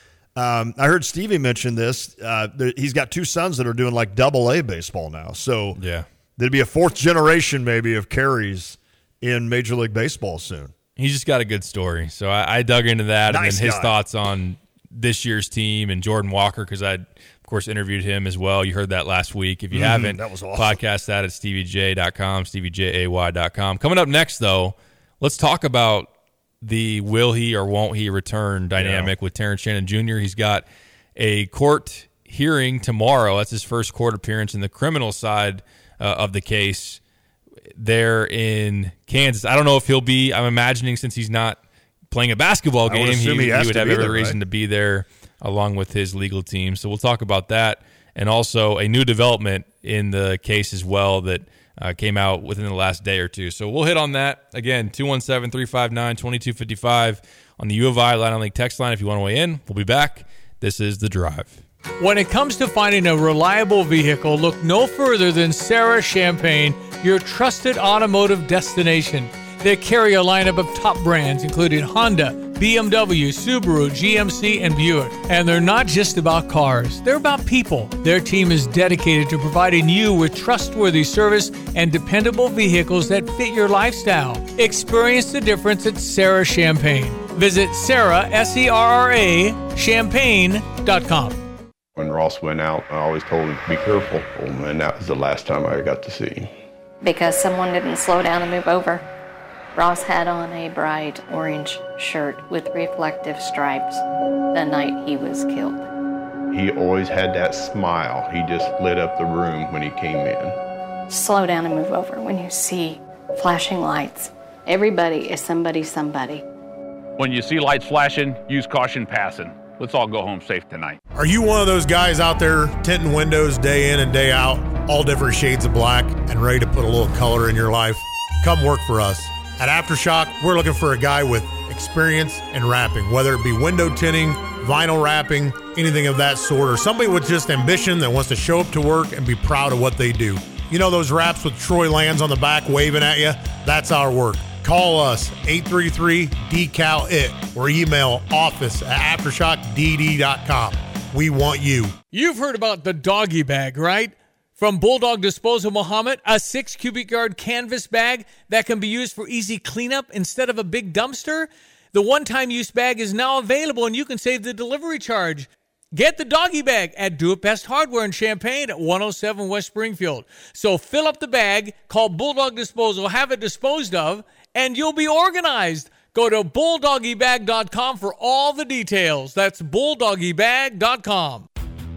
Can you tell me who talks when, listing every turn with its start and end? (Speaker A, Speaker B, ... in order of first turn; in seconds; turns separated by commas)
Speaker A: 0.3-5.8, Speaker B: 5.8-6.1, Speaker A: 6.4-10.7, Speaker B: 11.0-30.6, Speaker A: 13.3-13.9, Speaker A: 19.7-20.8, Speaker A: 28.8-29.1, Speaker B: 31.2-37.0, Speaker B: 37.8-41.6, Speaker B: 42.1-61.5, Speaker A: 42.9-44.4, Speaker C: 62.0-91.4, Speaker D: 92.0-96.5, Speaker E: 97.0-99.0, Speaker E: 99.8-104.0, Speaker E: 104.5-105.8, Speaker D: 106.5-110.6, Speaker E: 111.1-116.4, Speaker F: 117.2-121.0, Speaker G: 121.2-151.9, Speaker C: 152.1-181.5